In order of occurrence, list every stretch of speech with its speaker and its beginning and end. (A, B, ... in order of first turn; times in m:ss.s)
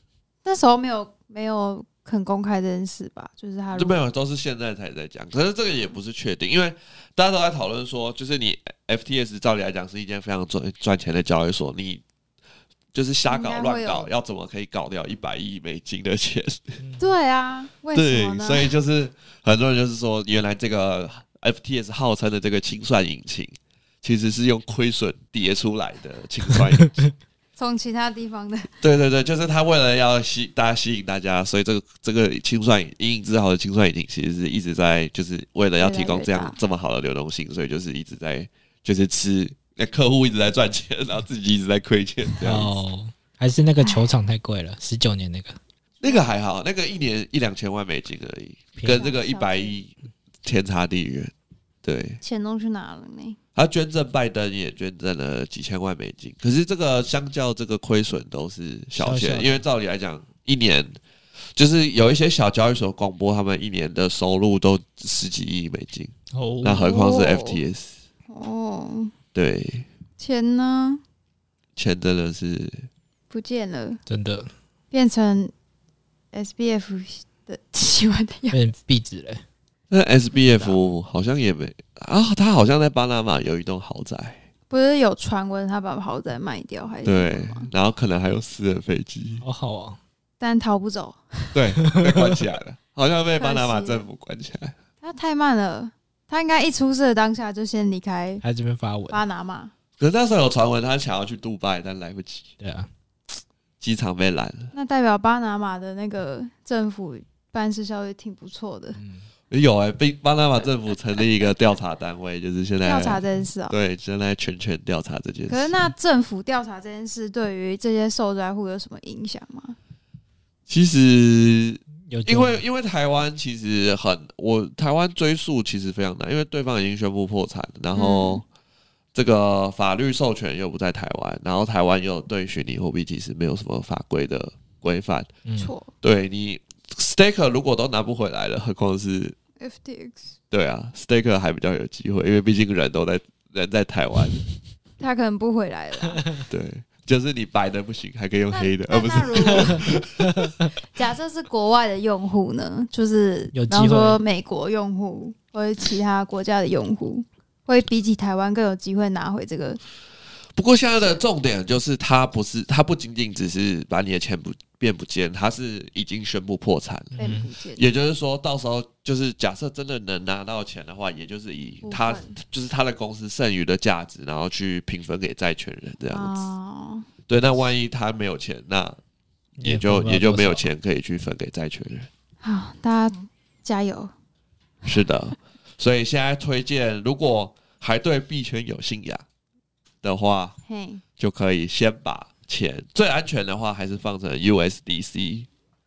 0:00.4-0:04.0 A
0:03.7-0:12.0 B
0:12.9-0:16.8 B
0:13.3-0:14.1 A
0:16.8-0:17.1 C
0:17.0-0:18.7 A
0:17.9-0:27.1 B
0:27.6-0:28.7 A
0:28.8-0:42.8 B
0:35.8-0:36.6 A
0:42.4-0:45.6 C
0:46.0-0:49.9 B
0:46.0-0:46.3 A
0:48.9-0:49.8 A
0:50.4-0:51.3 B
0:51.8-0:52.2 B
0:52.2-0:53.4 A
0:53.6-1:01.0 B
0:59.0-0:59.6 C
1:01.6-1:08.0 B
1:06.3-1:06.8 C
1:06.8-1:07.6 A
1:08.3-1:09.1 A
1:09.3-1:09.9 B
1:10.2-1:11.0 A
1:11.8-1:12.9 B
1:13.3-1:14.0 A
1:14.1-1:14.5 C
1:14.9-1:15.5 A
1:16.3-1:18.6 A
1:18.5-1:19.4 C
1:19.9-1:24.4 B
1:24.7-1:27.7 A
1:27.0-1:29.4 B
1:29.4-1:30.0 C
1:30.4-1:31.6 A
1:31.5-1:34.8 B
1:33.4-1:34.0 A
1:35.0-1:38.4 A
1:38.4-1:39.2 C
1:39.1-1:39.7 A
1:40.0-1:42.5 B
1:42.6-1:42.9 C
1:43.8-1:44.7 B
1:44.7-1:49.0 A
1:49.0-1:49.3 C
1:49.5-1:55.7 B
1:52.8-1:53.8 A
1:55.5-1:59.8 A
2:00.7-2:08.4 B
2:02.1-2:02.6 C
2:08.0-2:08.4 A
2:09.1-2:15.3 B
2:15.5-2:15.7 C
2:15.6-2:15.9 A
2:16.0-2:19.4 B
2:19.6-2:20.3 A
2:20.5-2:24.5 B
2:25.0-2:26.2 A
2:26.5-2:30.5 B
2:28.5-2:29.9 A
2:29.5-2:30.6 C
2:30.9-2:39.8 A
2:33.5-2:34.2 C
2:40.6-2:56.5 B
2:47.2-2:47.5 C
2:47.2-2:47.9 A
2:51.8-2:52.4 A
2:56.1-2:57.1 A
2:57.3-2:59.0 B
2:59.6-3:00.7 C
2:59.6-3:02.1 B
3:02.4-3:04.1 A
3:04.9-3:09.2 B
3:10.0-3:10.6 B
3:10.7-3:11.0 A
3:11.2-3:15.5 B